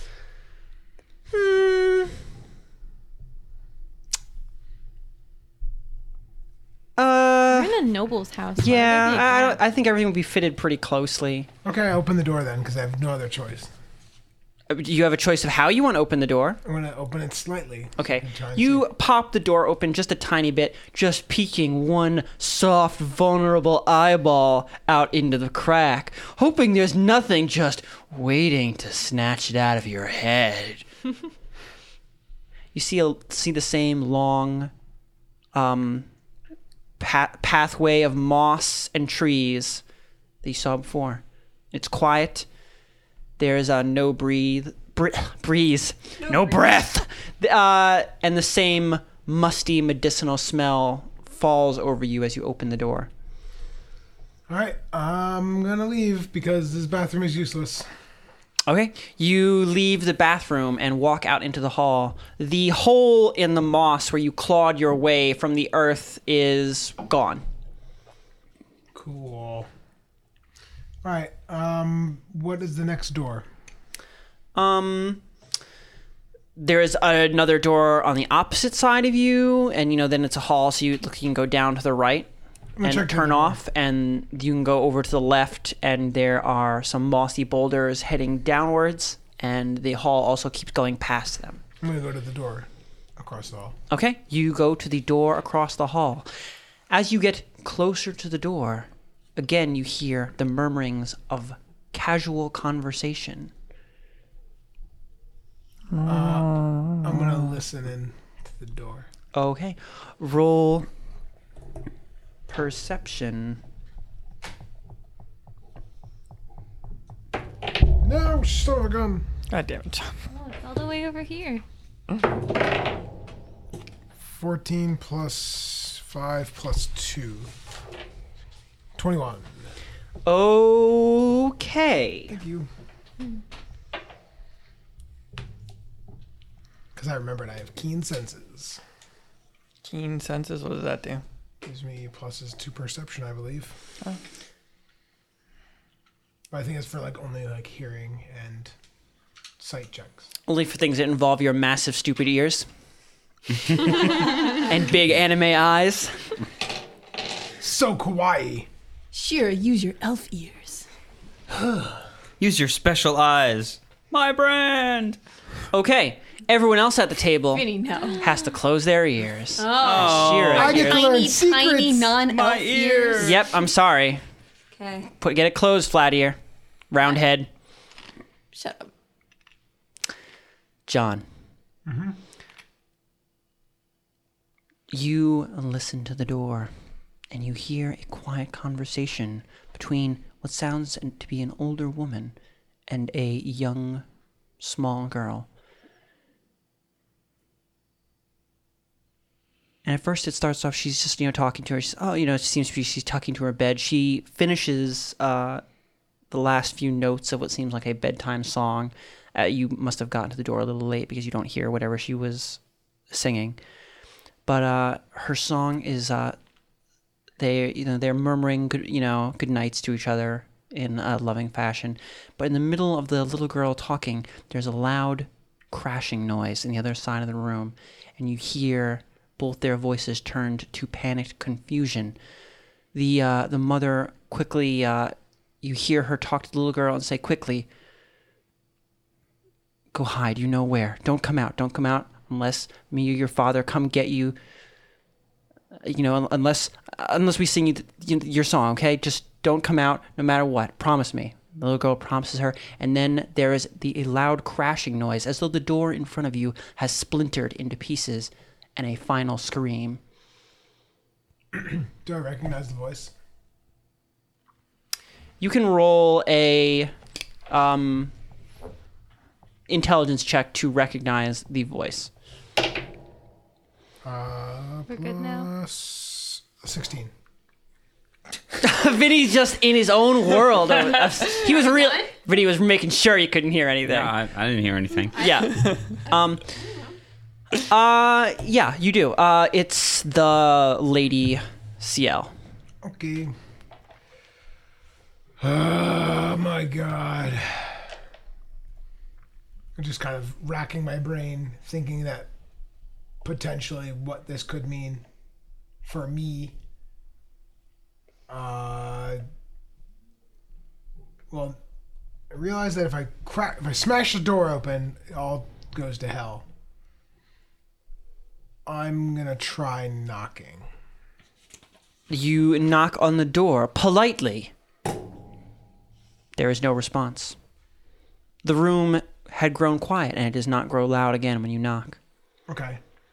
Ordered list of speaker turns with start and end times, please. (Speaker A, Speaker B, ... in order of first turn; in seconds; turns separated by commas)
Speaker A: 1.3-2.1, Speaker A: 7.0-7.8, Speaker B: 7.5-9.6, Speaker A: 8.6-11.5, Speaker C: 11.6-13.7, Speaker A: 14.7-16.6, Speaker C: 16.6-18.9, Speaker A: 18.0-30.9, Speaker A: 32.7-34.7, Speaker A: 35.5-36.1, Speaker A: 37.0-39.8, Speaker A: 40.4-42.5, Speaker A: 43.4-53.1, Speaker D: 46.3-46.6, Speaker C: 54.5-57.9, Speaker A: 58.7-67.4, Speaker C: 68.9-69.7, Speaker C: 71.0-73.5, Speaker A: 74.5-75.2, Speaker A: 76.5-82.3, Speaker C: 82.8-83.6, Speaker A: 82.8-91.6, Speaker C: 91.8-93.8, Speaker A: 93.9-96.3, Speaker A: 96.9-103.5, Speaker E: 105.9-107.4, Speaker C: 106.0-109.1, Speaker A: 109.3-110.9, Speaker A: 112.5-113.6, Speaker C: 118.0-119.2, Speaker E: 119.5-120.2, Speaker B: 120.3-121.6, Speaker C: 124.2-127.5, Speaker C: 128.9-129.5, Speaker A: 130.2-132.3, Speaker C: 132.3-132.7, Speaker C: 136.9-138.8, Speaker E: 139.8-141.2, Speaker C: 141.6-143.7, Speaker C: 146.5-148.7, Speaker C: 149.6-150.3, Speaker A: 150.5-152.7, Speaker A: 153.8-156.2, Speaker C: 157.6-158.7, Speaker D: 159.1-160.9, Speaker C: 161.5-162.0, Speaker F: 162.4-165.2, Speaker A: 165.7-167.7, Speaker D: 167.5-168.2, Speaker A: 168.2-171.0, Speaker D: 169.6-173.4, Speaker F: 169.7-170.9, Speaker C: 170.5-172.2, Speaker F: 172.3-173.5, Speaker A: 173.2-174.2, Speaker D: 174.7-175.1, Speaker A: 175.2-176.4, Speaker A: 176.9-177.5, Speaker D: 178.5-178.9, Speaker A: 180.9-181.2, Speaker C: 181.8-182.2, Speaker A: 184.9-186.7, Speaker A: 187.3-192.3, Speaker A: 192.9-194.0, Speaker A: 194.6-195.5, Speaker A: 199.8-205.6, Speaker A: 206.3-213.6, Speaker A: 214.4-216.3, Speaker A: 217.4-232.2, Speaker A: 232.9-237.7, Speaker A: 239.9-244.3, Speaker A: 245.8-260.0, Speaker C: 261.5-263.1, Speaker A: 265.4-266.9, Speaker A: 267.5-268.1, Speaker A: 269.7-272.1, Speaker C: 274.0-277.1, Speaker B: 274.9-275.5, Speaker A: 278.6-284.1, Speaker D: 281.3-282.1, Speaker F: 283.8-285.3, Speaker A: 285.1-286.4, Speaker A: 287.6-292.3, Speaker C: 292.8-293.3, Speaker C: 295.4-297.9, Speaker C: 299.8-302.3, Speaker C: 303.2-305.0, Speaker C: 305.8-306.5, Speaker C: 308.3-309.2, Speaker C: 311.3-311.6, Speaker C: 312.3-316.4, Speaker C: 318.6-320.6, Speaker A: 322.1-324.5, Speaker A: 326.4-327.4, Speaker A: 328.4-332.0, Speaker C: 332.5-332.8